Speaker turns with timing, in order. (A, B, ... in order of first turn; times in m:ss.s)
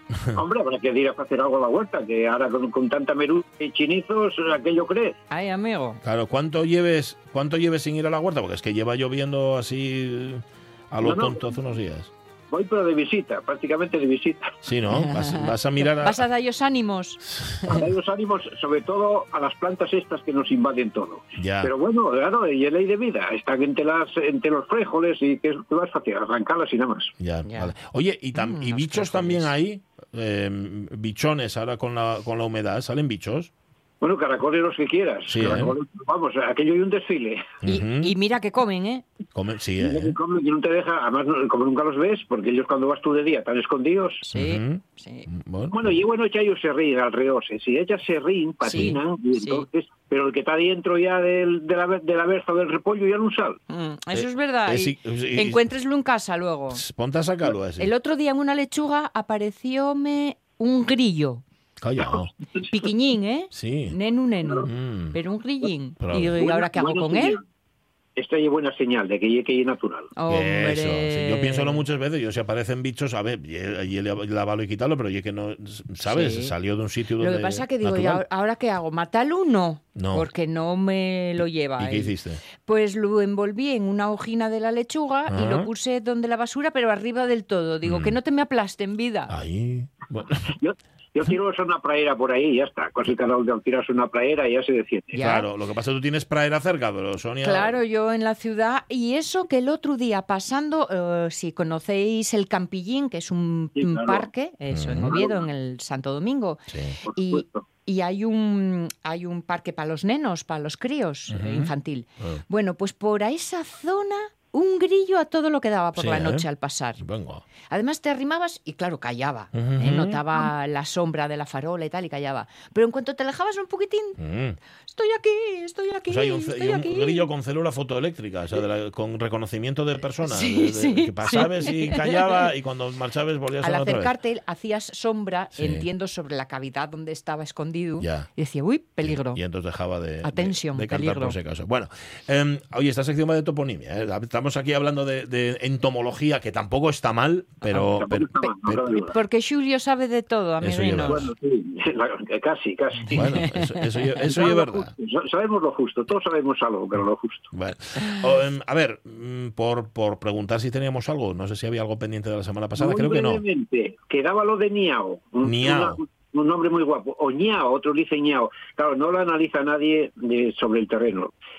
0:00.4-0:05.2 A
0:05.3-0:06.0 B
0:06.0-0:12.1 C
0:11.0-0:11.5 A
0:12.5-0:14.5 A
0:14.6-0:16.2 C
0:15.1-0:15.4 B
0:16.0-0:17.2 B
0:17.3-0:17.8 C
0:17.6-0:27.1 A
0:21.4-0:21.7 C
0:27.2-0:33.5 C
0:28.4-0:29.5 B
0:34.0-0:37.5 A
0:35.3-0:35.7 C
0:37.6-0:38.1 C
0:37.7-0:39.0 B
0:39.3-0:40.2 C
0:39.8-0:44.2 A
0:44.2-0:45.3 B
0:44.3-0:46.0 C
0:45.7-0:53.6 A
0:48.6-0:49.0 C
0:48.7-0:49.6 B
0:53.7-0:56.8 B
0:54.1-0:55.6 C
0:56.8-0:57.9 C
0:57.8-1:01.4 B
1:01.8-1:02.3 C
1:02.6-1:07.4 B
1:03.5-1:04.0 C
1:04.7-1:05.2 C
1:06.0-1:06.4 C
1:06.4-1:07.4 A
1:08.2-1:10.1 A
1:10.2-1:11.8 B
1:10.3-1:18.2 C
1:16.0-1:16.5 B
1:17.2-1:29.3 B
1:20.0-1:20.3 C
1:21.8-1:22.4 C
1:25.3-1:25.7 C
1:27.8-1:28.2 C
1:29.3-1:30.5 C
1:30.6-1:35.2 A
1:35.1-1:35.5 B
1:35.2-1:37.8 C
1:37.4-1:57.0 B
1:43.8-1:44.3 A
1:44.7-1:45.1 C
1:45.1-1:45.4 A
1:46.7-1:47.0 C
1:47.1-1:47.6 A
1:51.3-1:52.4 C
1:56.0-1:56.4 C
1:57.0-1:57.4 C
1:57.7-2:04.2 B
1:59.5-2:00.2 C
2:04.2-2:04.6 C
2:04.9-2:07.3 B
2:06.1-2:14.1 C
2:10.2-2:12.2 B
2:13.6-2:19.4 B
2:15.6-2:15.9 C
2:18.0-2:18.3 C
2:19.0-2:29.0 C
2:20.2-2:21.4 B
2:27.7-2:29.1 A
2:28.9-2:31.3 B
2:30.6-2:31.3 C
2:31.0-2:33.2 A
2:33.1-2:34.9 C
2:33.1-2:34.2 B
2:34.3-2:37.5 A
2:37.5-2:43.4 C
2:42.8-2:51.3 A
2:45.4-2:46.0 C